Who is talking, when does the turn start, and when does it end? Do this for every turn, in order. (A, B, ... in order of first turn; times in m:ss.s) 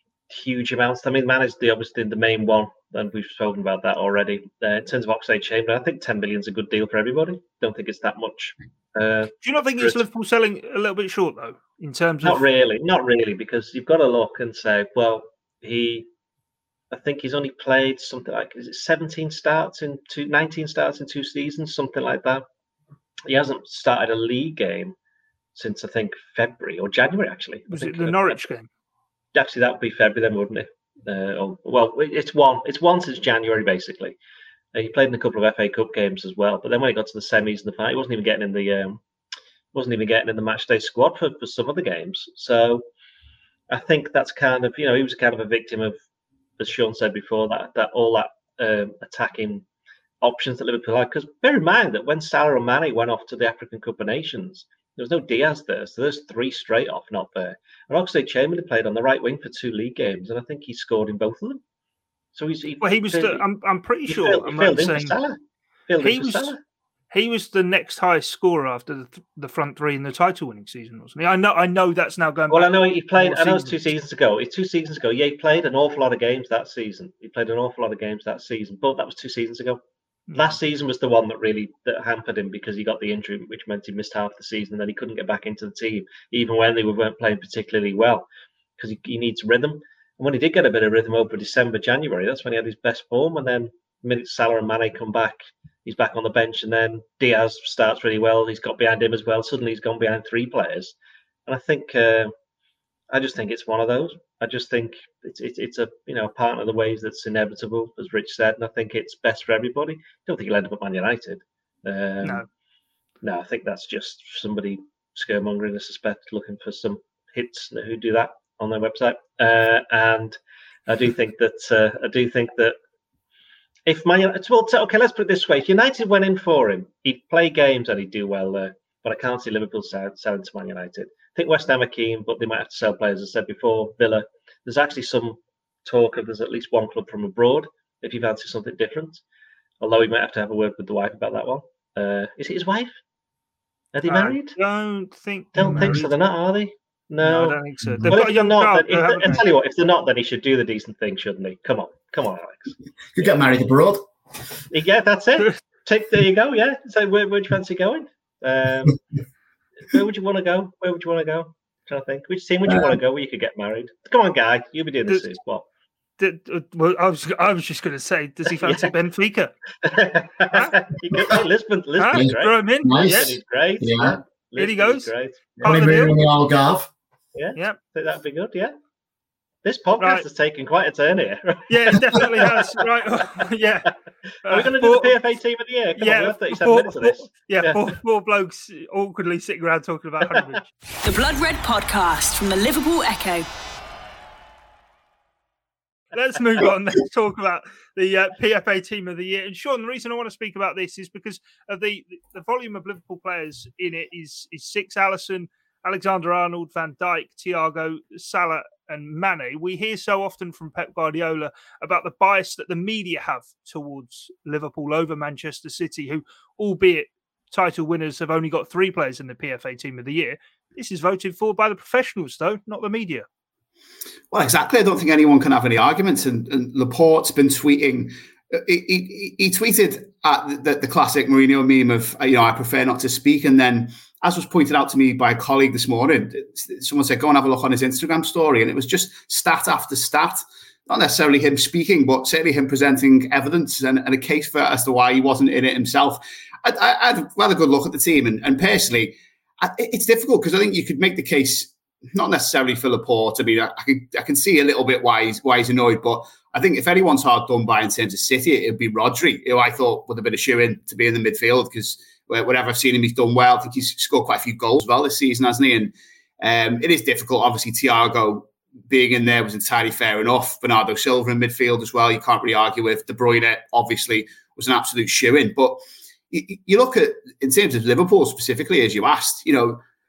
0:00.3-0:10.0 A
0:09.4-0:12.4 B
0:12.2-0:16.1 A
0:16.9-0:22.4 A
0:23.3-0:25.0 A
0:25.6-0:28.4 A
0:27.7-0:28.7 B
0:29.3-0:34.2 A
0:34.7-0:39.0 A
0:39.7-0:42.8 A
0:43.7-0:46.0 A
0:46.6-0:49.6 A
0:50.2-1:01.6 A
1:02.4-1:03.4 A
1:02.8-1:05.2 B
1:04.1-1:05.4 A
1:05.9-1:06.6 A
1:06.0-1:06.6 B
1:07.1-1:13.8 B
1:12.5-1:19.8 A
1:20.3-1:20.6 B
1:20.4-1:28.3 A
1:28.8-1:40.9 A
1:41.5-1:42.3 A
1:43.1-1:52.4 A
1:53.2-2:02.8 A
2:03.9-2:19.2 A
2:19.8-2:23.0 A
2:23.9-2:24.6 A
2:24.1-2:26.1 B
2:25.6-2:33.3 A
2:27.2-2:29.4 B
2:33.2-2:34.0 C
2:34.7-2:39.0 A
2:39.9-2:45.6 A
2:46.2-2:49.5 B
2:48.6-2:48.9 A
2:49.8-2:56.0 A
2:52.0-2:53.4 B
2:52.8-2:54.2 C
2:54.6-2:55.1 B
2:55.6-2:56.9 C
2:55.6-2:56.2 B
2:57.4-2:58.7 A
2:59.6-3:03.2 A
3:00.0-3:00.2 B
3:01.7-3:03.9 B
3:04.4-3:05.2 B
3:04.5-3:07.9 A
3:06.0-3:10.6 B
3:11.0-3:13.5 D
3:16.1-3:43.3 B
3:44.3-4:35.8 E
4:36.3-4:39.8 E